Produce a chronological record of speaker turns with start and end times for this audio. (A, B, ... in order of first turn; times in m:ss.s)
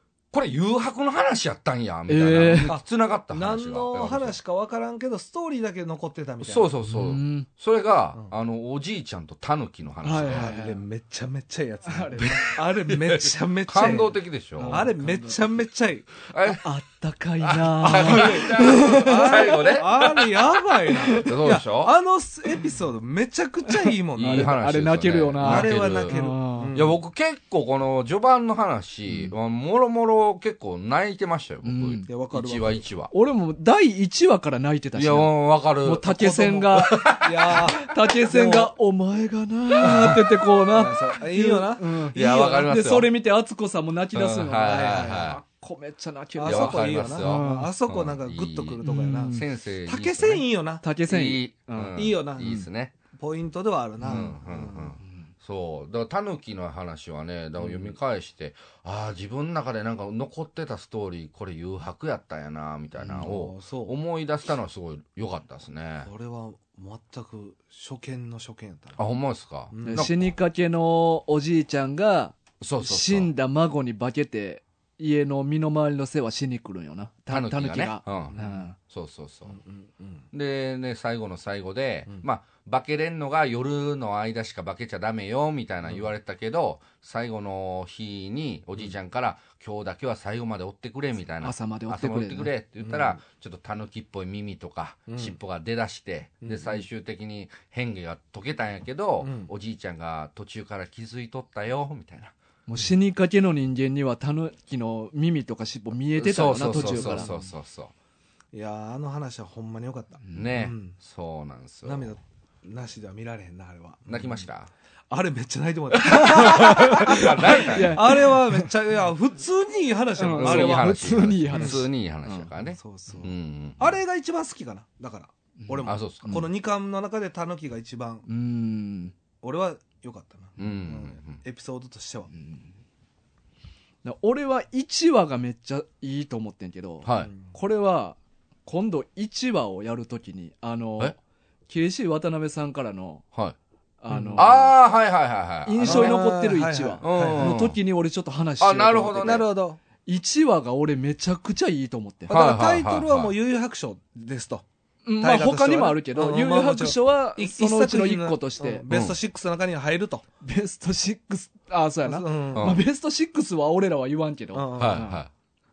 0:00.3-0:04.4 A
0:02.1-0:02.8 B
0:02.6-0:06.7 C
0:06.4-0:10.5 A
0:06.9-0:07.5 B
0:10.0-0:10.8 B
0:10.3-0:16.2 C
0:11.9-0:12.6 B
0:12.2-0:14.9 A
0:14.6-0:15.4 B
0:16.2-0:16.6 A
0:16.6-0:19.8 B
0:17.4-0:20.3 A
0:17.8-0:24.5 C
0:21.0-0:21.4 B
0:21.2-0:21.9 A
0:23.7-0:26.7 B
0:24.2-0:26.1 A
0:25.4-0:27.0 C
0:26.7-0:33.1 A
0:31.6-0:32.1 B
0:32.1-0:32.8 C
0:33.1-0:47.7 B
0:34.9-0:36.1 A
0:36.1-0:38.7 C
0:36.8-0:37.6 A
0:39.8-0:42.7 C
0:42.1-0:43.1 A
0:44.1-0:45.4 A
0:44.7-0:45.3 C
0:46.4-0:50.8 C
0:46.4-0:50.4 A
0:48.8-0:49.4 B
0:50.8-0:52.0 B
0:51.0-0:52.9 A
0:52.0-0:55.0 C
0:54.0-0:54.3 B
0:54.1-1:06.1 A
0:55.0-0:55.3 B
1:03.0-1:03.9 C
1:06.0-1:09.0 C
1:09.0-1:10.2 A
1:09.7-1:10.1 C
1:09.8-1:18.8 B
1:12.6-1:13.3 A
1:17.3-1:19.6 A
1:18.3-1:18.6 C
1:19.5-1:20.2 C
1:20.3-1:42.3 A
1:31.4-1:32.5 B
1:32.8-1:33.2 C
1:35.1-1:35.4 C
1:36.4-1:36.8 C
1:39.2-1:39.5 C
1:42.7-1:47.3 B
1:46.2-1:47.9 A
1:46.7-1:47.5 C
1:48.5-1:51.0 C
1:50.3-1:52.1 A
1:51.8-1:54.3 C
1:54.1-1:54.7 A
1:55.1-2:01.8 C
1:56.0-1:58.7 B
1:56.2-1:58.2 A
2:00.2-2:02.5 B
2:00.4-2:04.0 A
2:02.7-2:08.2 C
2:05.6-2:06.5 B
2:05.8-2:06.4 A
2:08.3-2:09.1 B
2:09.4-2:12.3 C
2:10.6-2:11.4 A
2:12.3-2:12.7 B
2:14.0-2:21.2 B
2:17.0-2:17.3 A
2:17.2-2:17.5 C
2:21.7-2:23.2 B
2:24.0-2:24.7 B
2:24.1-2:24.5 C
2:24.4-2:26.2 A
2:25.6-2:29.5 B
2:25.8-2:27.6 C
2:27.0-2:27.8 A
2:28.6-2:29.5 A
2:29.2-2:29.8 C
2:30.0-2:32.3 B
2:32.3-2:33.3 A
2:32.3-2:34.6 C
2:35.0-2:38.8 B
2:35.2-2:40.2 C
2:38.9-2:39.2 A
2:40.4-2:45.2 B
2:42.0-2:42.8 C
2:42.5-2:42.9 A
2:44.5-2:45.0 C
2:44.8-2:45.3 A